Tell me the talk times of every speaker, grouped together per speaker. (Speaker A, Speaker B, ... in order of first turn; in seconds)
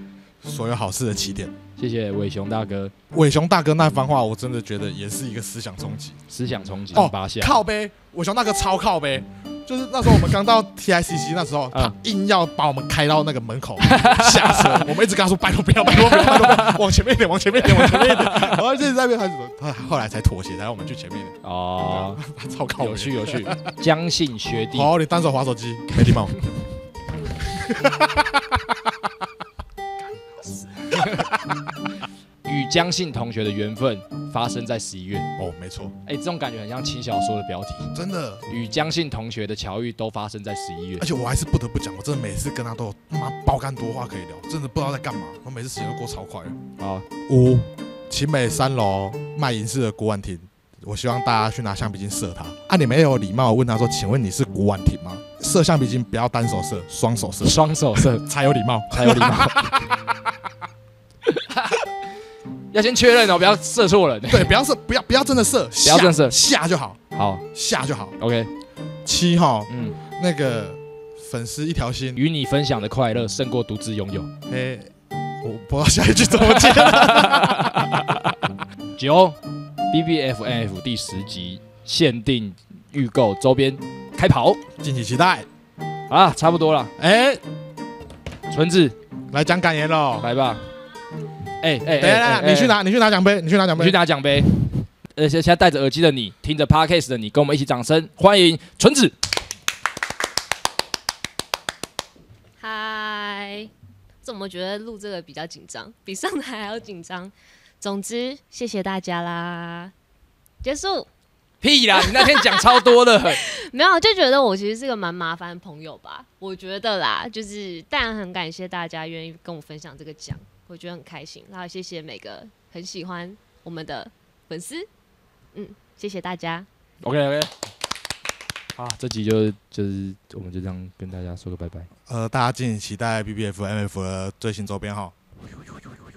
Speaker A: 0.4-1.6, 3.1-6.2, 6.9-23.8, 24.7-26.4, 27.4-29.1, 30.0-31.6, 35.4-36.0, 37.9-38.5, 41.0-46.6, 47.2-60.0, 64.3-68.2, 69.0-72.2, 74.5-77.8, 84.8-85.5, 87.0-87.4, 89.3-90.3, 91.9-94.0, 132.1-135.1
Speaker B: 1.8-2.9, 6.3-7.6, 13.8-14.9, 15.9-16.8, 17.5-18.6, 21.4-22.2, 22.8-24.9, 30.9-31.3, 32.5-35.3, 36.0-37.9, 38.5-41.1, 46.8-47.1, 57.4-58.2, 58.9-59.9, 61.3-61.9, 62.7-64.5, 65.8-66.4, 67.1-67.4, 68.2-68.5, 69.7-70.0, 72.2-74.3, 76.5-78.4, 79.0-79.4, 79.9-84.6, 86.1-86.9, 88.5-89.0, 90.2-90.7, 91.6-92.8, 93.8-99.2, 111.6-113.4, 127.0-127.5, 128.8-131.9
Speaker C: 102.6-103.7, 104.2-109.9, 110.6-111.1, 112.0-124.9, 125.5-126.7